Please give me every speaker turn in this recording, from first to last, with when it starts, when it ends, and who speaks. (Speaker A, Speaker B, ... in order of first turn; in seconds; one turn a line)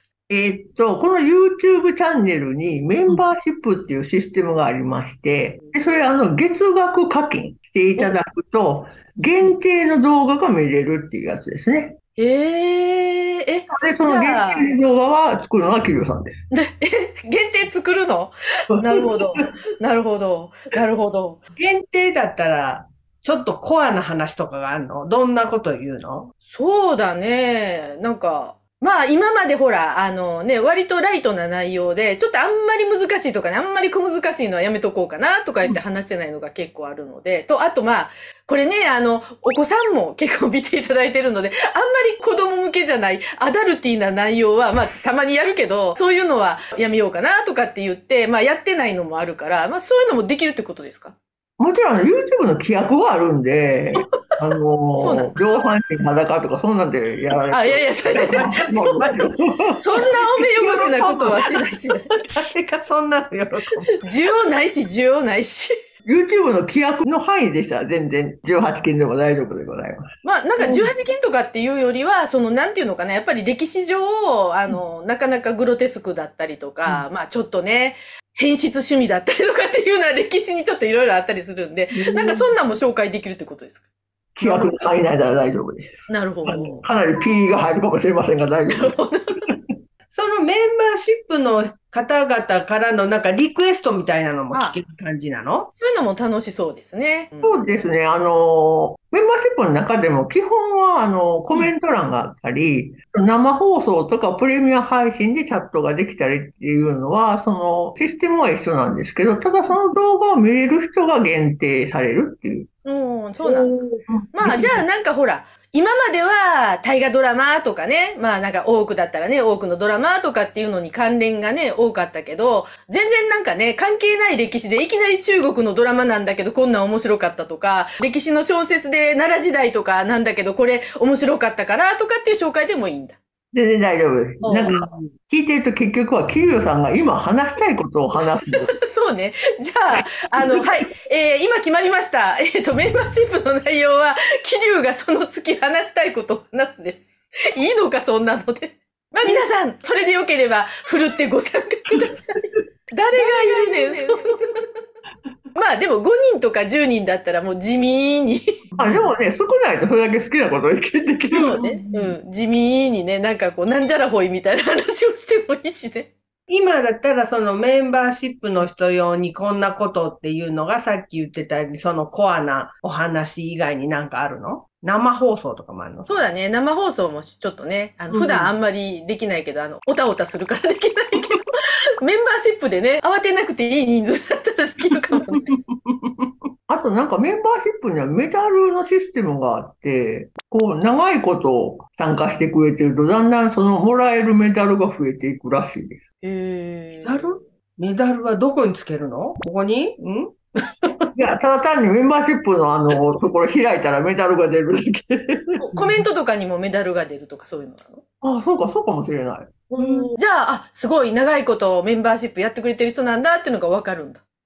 Speaker A: 0.3-12.0
Speaker B: 12.2-14.7
Speaker A: 13.7-16.5
Speaker B: 16.5-21.4
Speaker A: 18.8-19.4
Speaker C: 21.6-26.3
Speaker B: 26.4-51.1
Speaker A: 51.6-63.9
Speaker B: 54.9-55.3
Speaker B: 57.5-59.1
Speaker C: 58.2-59.2
Speaker B: 59.7-62.1
Speaker B: 64.0-65.7
Speaker A: 66.0-70.0
Speaker B: 70.2-83.8
Speaker A: 70.6-70.9
Speaker A: 81.9-82.5
Speaker A: 84.3-85.9
Speaker C: 84.4-84.8
Speaker B: 86.1-86.8
Speaker A: 86.4-89.0
Speaker B: 88.7-89.4
Speaker C: 90.1-95.7
Speaker B: 94.5-94.8
Speaker B: 95.7-97.7
Speaker A: 97.4-112.7
Speaker B: 112.8-113.7
Speaker A: 113.5-114.8
Speaker B: 114.3-133.2
Speaker A: 133.5-138.7
Speaker C: 134.5-135.1
Speaker B: 138.5-154.3
Speaker A: 153.4-154.0
Speaker B: 155.5-158.4
Speaker C: 158.7-159.1
Speaker A: 158.8-161.6
Speaker B: 161.3-166.1
Speaker C: 161.3-162.1
Speaker C: 166.5-176.2
Speaker B: 176.1-181.5
Speaker C: 178.1-178.5
Speaker B: 182.0-185.5
Speaker C: 185.5-186.3
Speaker A: 186.7-196.0
Speaker B: 196.2-197.4
Speaker C: 197.0-201.1
Speaker A: 201.1-205.6
Speaker B: 205.6-208.0
Speaker C: 205.7-206.0
Speaker A: 208.2-209.6
Speaker B: 209.7-214.2
Speaker C: 209.8-210.1